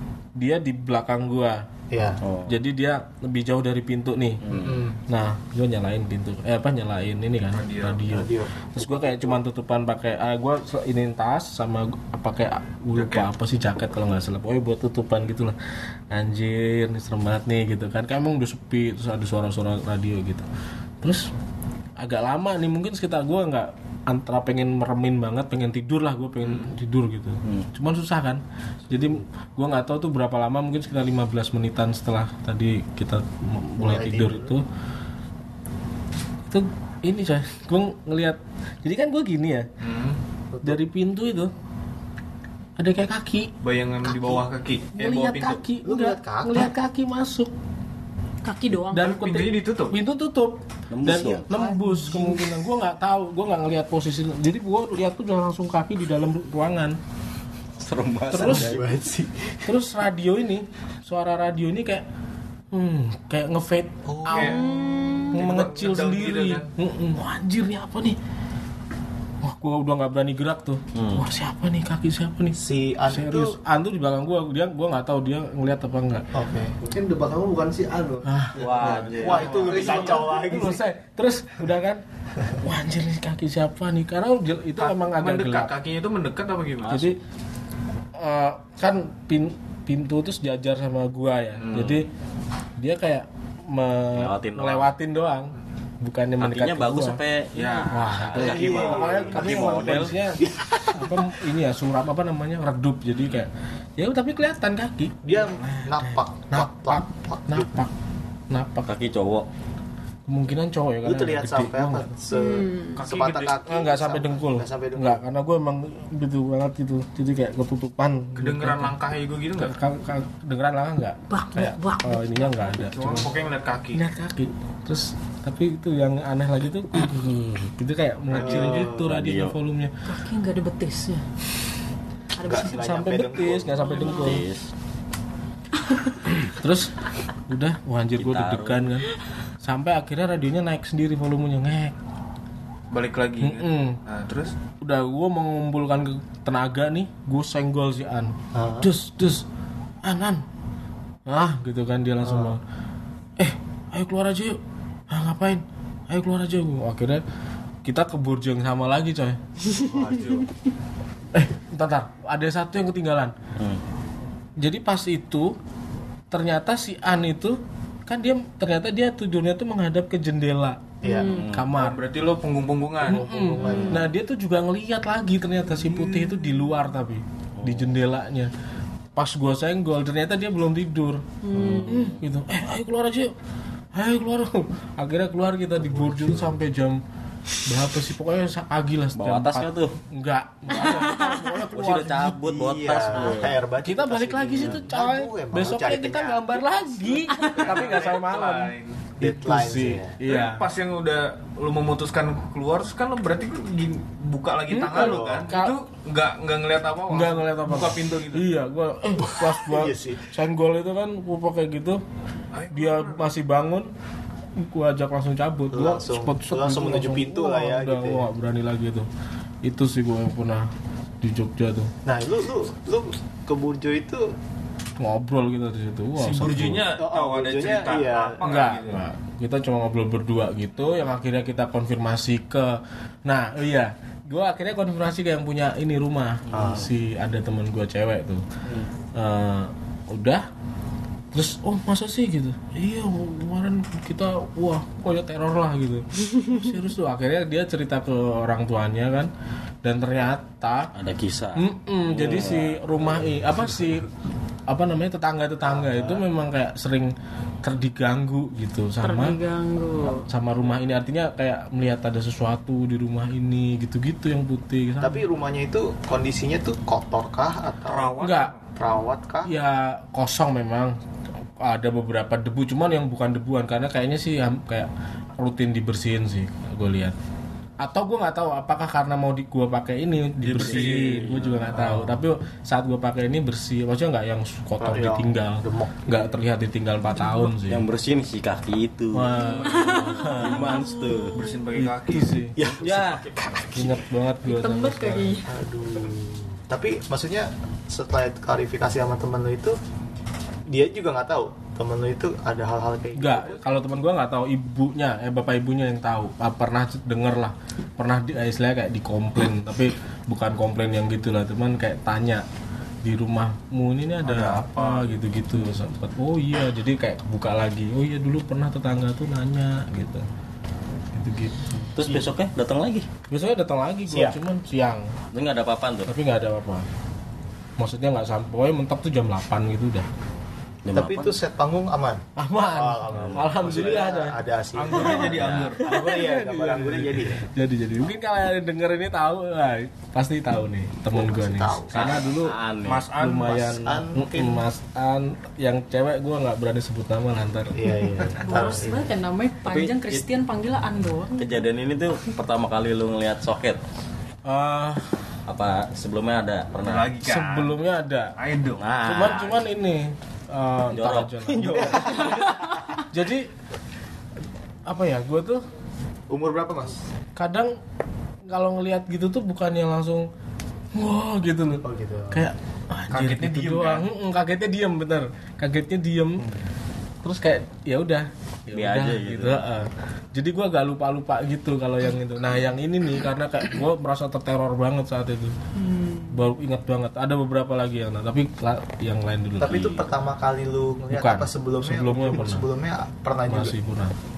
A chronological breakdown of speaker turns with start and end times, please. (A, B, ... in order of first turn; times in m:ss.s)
0:00.4-0:01.6 A
0:01.9-0:02.2 B
0:02.2-0:02.6 C
0:02.5-0:15.6 A
0:04.5-0:04.7 C
0:04.5-0:05.0 B
0:07.5-0:08.1 D
0:08.1-0:09.4 B
0:12.9-0:13.3 D
0:16.1-0:20.5 A
0:21.0-0:21.3 A
0:22.0-0:34.6 A
0:26.4-0:26.7 D
0:33.8-0:34.6 B
0:36.5-0:39.7 A
0:39.8-0:40.2 D
0:40.5-0:40.8 B
0:40.6-0:41.5 A
0:42.8-0:43.5 A
0:43.6-0:45.6 D
0:44.9-0:47.5 A
0:45.8-0:46.7 B
0:48.4-0:49.2 E
0:48.8-0:57.0 A
0:49.0-0:50.0 D
0:50.9-0:51.5 C
0:51.6-0:52.3 E
0:57.8-0:58.8 C
0:58.3-0:58.7 A
0:58.4-0:59.7 B
0:59.7-1:02.0 A
1:02.7-1:04.6 A
1:04.1-1:04.5 B
1:04.3-1:04.6 D
1:04.3-1:05.4 E
1:05.3-1:08.2 A
1:05.3-1:06.7 D
1:09.4-1:16.3 A
1:11.0-1:11.2 C
1:12.5-1:13.6 B
1:16.3-1:16.8 B
1:16.8-1:19.5 F
1:18.2-1:19.0 A
1:18.6-1:19.6 C
1:19.1-1:20.8 B
1:19.2-1:20.3 D
1:19.6-1:22.0 A
1:22.6-1:25.7 A
1:24.8-1:27.1 D
1:26.8-1:27.2 C
1:26.9-1:27.2 A
1:28.2-1:32.1 A
1:31.6-1:32.0 D
1:32.8-1:37.2 A
1:34.1-1:34.9 C
1:36.4-1:40.2 C
1:37.5-1:40.0 D
1:37.9-1:47.9 A
1:38.4-1:39.8 B
1:40.4-1:41.0 B
1:45.2-1:47.7 B
1:48.5-1:48.9 A
1:48.8-1:49.5 C
1:50.3-1:52.1 A
1:51.0-1:55.2 B
1:52.3-1:53.0 E
1:53.0-1:53.5 D
1:53.6-1:59.0 A
1:58.4-1:59.8 D
1:59.6-2:03.3 A
2:01.3-2:02.9 E
2:02.9-2:04.0 D
2:03.9-2:09.9 A
2:08.3-2:09.1 B
2:08.3-2:08.9 D
2:09.0-2:09.6 C
2:10.1-2:11.2 E
2:12.4-2:13.0 E
2:12.4-2:13.9 B
2:12.6-2:14.4 A
2:13.8-2:14.4 E
2:14.1-2:14.7 C
2:16.5-2:16.9 A
2:17.5-2:19.1 A
2:18.2-2:18.9 C
2:19.6-2:22.0 A
2:22.9-2:24.5 D
2:23.4-2:24.0 A
2:24.8-2:29.4 A
2:28.5-2:28.9 B
2:30.0-2:30.4 A
2:31.3-2:32.6 A
2:32.2-2:32.6 B
2:33.4-2:34.6 A
2:35.1-2:37.2 A
2:37.8-2:39.4 A
2:39.8-2:40.5 B
2:40.1-2:40.4 D
2:41.3-2:43.4 A
2:44.6-2:45.6 A
2:46.3-2:52.0 A
2:51.0-2:51.4 B
2:51.0-2:51.5 E
2:51.3-2:51.7 C
2:51.7-2:53.6 D
2:53.0-2:58.5 A
2:53.1-2:54.1 B
2:55.8-2:56.3 D
2:57.6-2:58.0 C
2:59.2-3:01.2 A
3:01.4-3:02.2 E
3:01.5-3:02.2 C
3:01.8-3:03.3 A
3:03.9-3:07.0 A
3:05.8-3:06.6 B
3:07.7-3:12.4 A
3:09.2-3:09.9 C
3:10.8-3:11.5 E
3:11.7-3:13.6 C
3:12.4-3:16.4 B
3:13.8-3:20.7 A
3:17.5-3:19.0 D
3:19.2-3:20.2 B
3:20.2-3:28.6 D
3:24.7-3:25.8 A
3:24.8-3:25.5 B
3:27.1-3:32.0 A
3:29.2-3:30.3 B
3:32.5-3:33.3 D
3:32.7-3:33.9 A
3:34.6-3:39.1 A
3:35.7-3:38.3 B
3:39.6-3:40.7 A
3:41.2-3:41.9 A
3:42.1-3:44.3 B
3:45.0-3:46.9 A
3:46.2-3:49.0 D
3:47.0-3:48.4 B
3:48.4-3:58.4 A
3:56.5-3:56.9 C
3:56.5-3:56.9 B
3:59.2-4:00.5 A
4:01.3-4:09.3 A
4:09.8-4:10.9 A
4:11.0-4:12.9 C
4:11.6-4:14.1 A
4:14.7-4:19.4 A
4:15.6-4:16.2 B
4:19.0-4:20.3 E
4:20.3-4:25.2 A
4:25.0-4:28.2 B
4:27.8-4:28.6 D
4:28.2-4:28.5 A
4:28.8-4:29.5 B
4:29.4-4:31.0 A
4:31.6-4:37.2 A
4:37.8-4:47.9 A
4:40.4-4:41.7 D
4:40.5-4:41.8 C
4:41.7-4:42.2 B
4:44.8-4:46.2 B
4:47.6-4:51.4 C
4:49.1-4:50.9 A
4:49.4-4:51.6 E
4:51.3-4:52.4 D
4:51.7-4:55.4 A
4:52.6-4:53.2 C
4:54.4-4:55.5 E
4:55.5-4:59.8 B
5:00.7-5:03.7 B
5:03.2-5:12.4 A
5:13.0-5:20.3 A
5:14.2-5:15.2 D
5:21.1-5:21.7 A
5:21.9-5:23.1 C
5:23.3-5:25.1 A
5:24.1-5:24.4 B
5:25.3-5:26.1 C
5:26.1-5:26.9 A
5:27.8-5:30.1 A
5:30.8-5:31.4 C
5:30.9-5:37.4 B
5:32.4-5:34.4 A
5:33.1-5:33.7 C
5:34.8-5:35.9 D
5:35.0-5:35.8 C
5:35.9-5:42.6 A
5:41.1-5:42.2 B
5:41.9-5:43.1 C
5:42.8-5:43.7 D
5:43.1-5:47.8 A
5:43.5-5:44.6 B
5:47.7-5:49.1 B
5:48.4-5:51.6 E
5:49.7-5:50.3 C
5:51.4-5:53.8 C
5:54.4-5:55.2 A
5:55.5-5:57.1 C
5:56.8-5:57.8 D
5:57.2-5:58.3 A
5:58.4-5:58.9 D
5:58.8-5:59.7 C
5:59.0-6:02.4 A
6:00.9-6:02.6 C
6:03.0-6:03.5 A
6:04.8-6:05.6 A
6:06.3-6:07.0 B
6:07.4-6:07.8 A
6:08.5-6:10.3 A
6:11.0-6:16.5 A
6:11.8-6:12.5 B
6:13.1-6:14.1 D
6:17.2-6:25.5 A
6:18.7-6:19.7 C
6:25.8-6:26.5 E
6:26.3-6:29.8 A
6:29.6-6:33.8 B
6:29.7-6:30.0 C
6:31.1-6:32.7 A
6:33.5-6:34.2 A